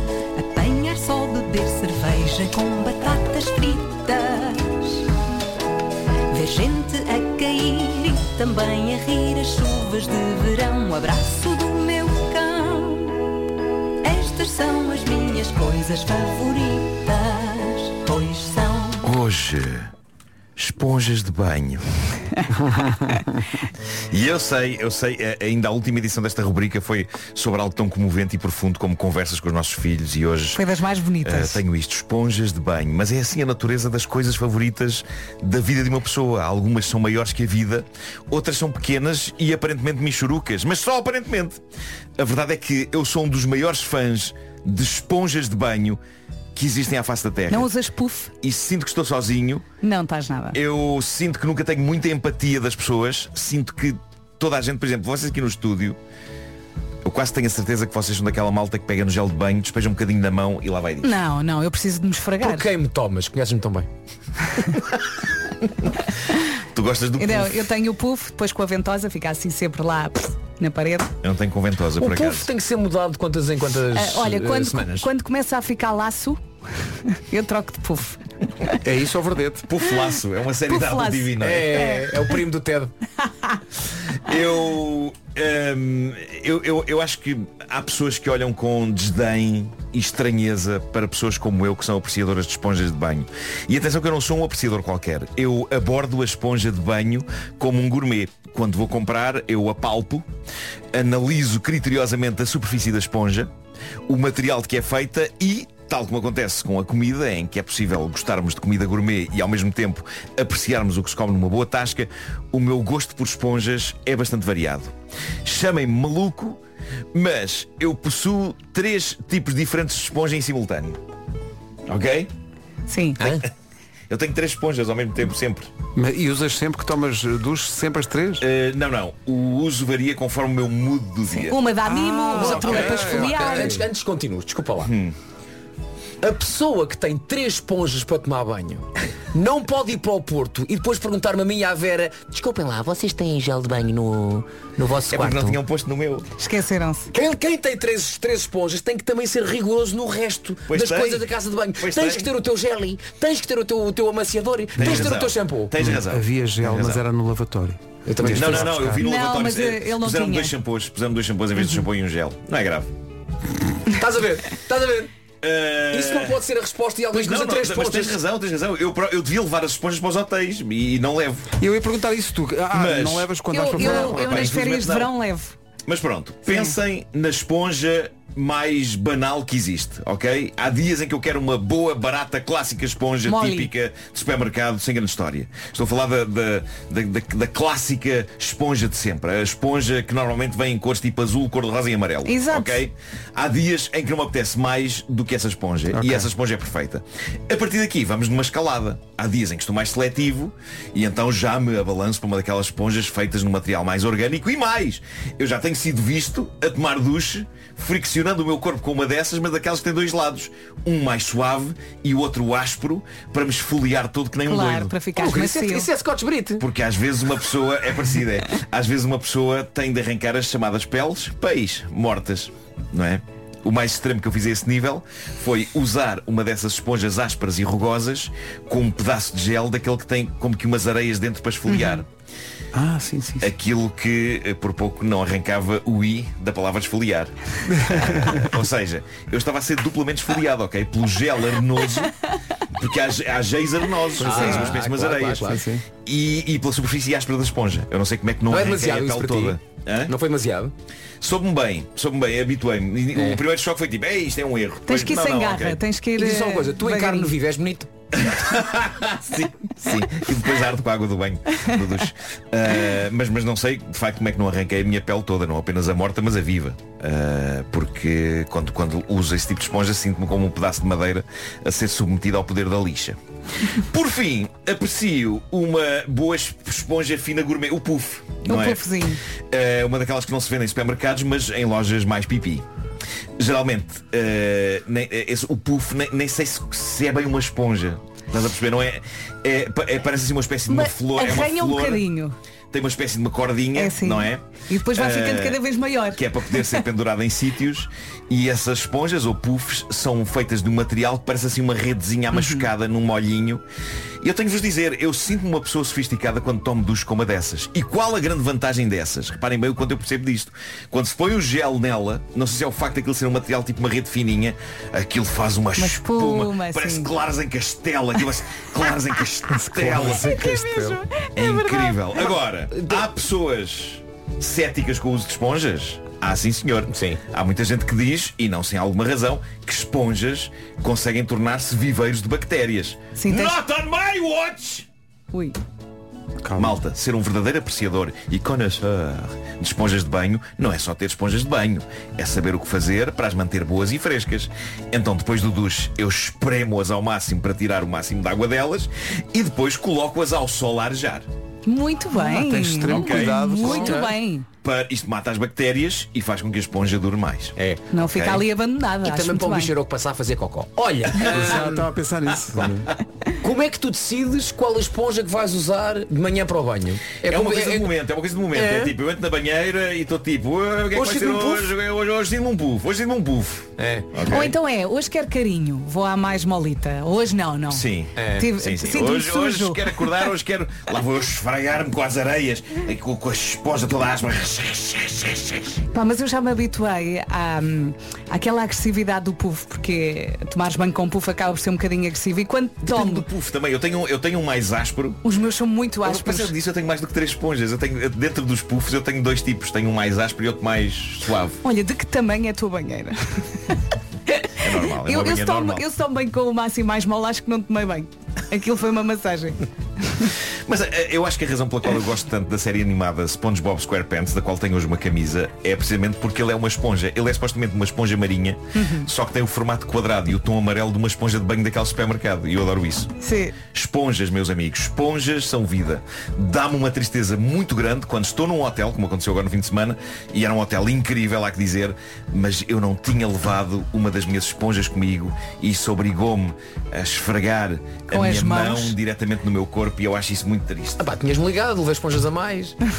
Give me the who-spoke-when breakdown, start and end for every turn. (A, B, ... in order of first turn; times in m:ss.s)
0:00.3-0:05.1 A
0:06.3-0:13.2 A
0:14.0-0:19.0 A
0:19.0-0:19.9 B
0:20.6-0:21.8 B
0:24.1-0:30.6 B
0:30.5-0:31.6 C
0:31.2-0:41.6 B
0:42.2-0:46.0 B
0:46.5-0:47.7 B
0:47.5-0:48.3 C
0:48.4-0:49.6 B
0:49.8-0:50.6 C
0:50.5-0:56.0 B
0:57.0-1:01.2 B
1:01.0-1:02.6 C
1:02.4-1:03.9 D
1:06.6-1:07.7 B
1:07.2-1:11.1 C
1:11.2-1:12.5 B
1:12.0-1:15.1 D
1:13.9-1:18.8 C
1:18.8-1:19.6 E
1:19.7-1:21.7 B
1:19.8-1:22.2 C
1:21.4-1:22.9 D
1:24.2-1:40.2 B
1:40.9-1:43.5 B
1:44.0-1:54.9 B
1:55.4-1:56.6 B
1:57.1-2:01.0 B
2:01.9-2:02.3 B
2:02.9-2:03.2 C
2:04.1-2:05.7 B
2:05.9-2:08.4 E
2:08.4-2:11.6 B
2:11.3-2:13.8 C
2:11.8-2:13.8 E
2:12.3-2:14.9 D
2:12.6-2:13.0 B
2:14.8-2:15.1 B
2:16.2-2:25.5 D
2:25.1-2:26.3 B
2:26.4-2:27.1 C
2:27.1-2:35.7 D
2:30.7-2:32.3 B
2:34.8-2:37.0 B
2:35.8-2:39.0 E
2:38.0-2:38.7 D
2:38.3-2:42.9 B
2:39.0-2:40.5 C
2:43.9-2:45.1 D
2:45.4-2:46.4 B
2:45.9-2:48.2 D
2:47.1-2:51.5 B
2:51.6-2:54.6 E
2:52.7-2:55.1 B
2:53.5-2:55.6 C
2:55.8-3:34.9 B
2:56.5-2:56.7 C
3:03.2-3:03.7 C
3:12.2-3:12.8 C
3:16.0-3:16.2 E
3:34.4-3:35.9 C
3:35.1-3:36.6 D
3:36.6-3:52.1 B
3:51.7-3:52.0 C
3:52.7-3:53.5 E
3:53.4-4:10.1 B
4:04.2-4:04.8 E
4:04.2-4:05.6 D
4:05.4-4:05.8 E
4:08.5-4:10.7 D
4:11.2-4:15.8 B
4:13.1-4:13.4 D
4:14.8-4:17.3 C
4:16.1-4:17.9 D
4:18.2-4:33.2 B
4:33.7-4:42.6 B
4:38.4-4:39.2 C
4:43.4-4:52.0 B
4:50.7-4:52.4 C
4:52.7-5:03.6 B
4:53.7-4:56.8 C
5:02.3-5:02.6 C
5:04.2-5:20.4 B
5:15.8-5:17.1 C
5:19.6-5:21.0 E
5:20.2-5:22.1 C
5:21.3-5:34.9 B
5:26.9-5:27.2 D
5:33.1-5:33.6 C
5:35.3-5:35.6 C
5:36.4-5:36.8 E
5:36.6-5:51.2 B
5:51.6-5:54.5 C
5:52.2-5:54.1 E
5:52.9-5:54.0 B
5:53.8-5:54.1 D
5:54.6-5:57.6 B
5:57.6-5:57.8 D
5:57.9-5:59.7 C
5:58.1-5:58.4 B
5:59.0-6:01.9 D
6:01.2-6:02.9 E
6:03.4-6:07.9 D
6:07.2-6:14.6 B
6:08.5-6:08.9 D
6:10.9-6:11.7 D
6:13.8-6:14.1 D
6:14.2-6:20.2 C
6:17.7-6:25.8 B
6:18.2-6:18.5 D
6:25.9-6:33.3 C
6:32.8-6:35.2 B
6:35.2-6:36.5 C
6:36.0-6:41.6 B
6:41.6-6:43.8 C
6:44.3-6:50.3 C
6:44.6-6:45.8 B
6:50.6-7:03.1 B
6:58.7-6:59.1 C
7:03.2-7:03.6 C
7:03.7-7:21.0 B
7:18.1-7:19.0 C
7:21.0-7:22.8 D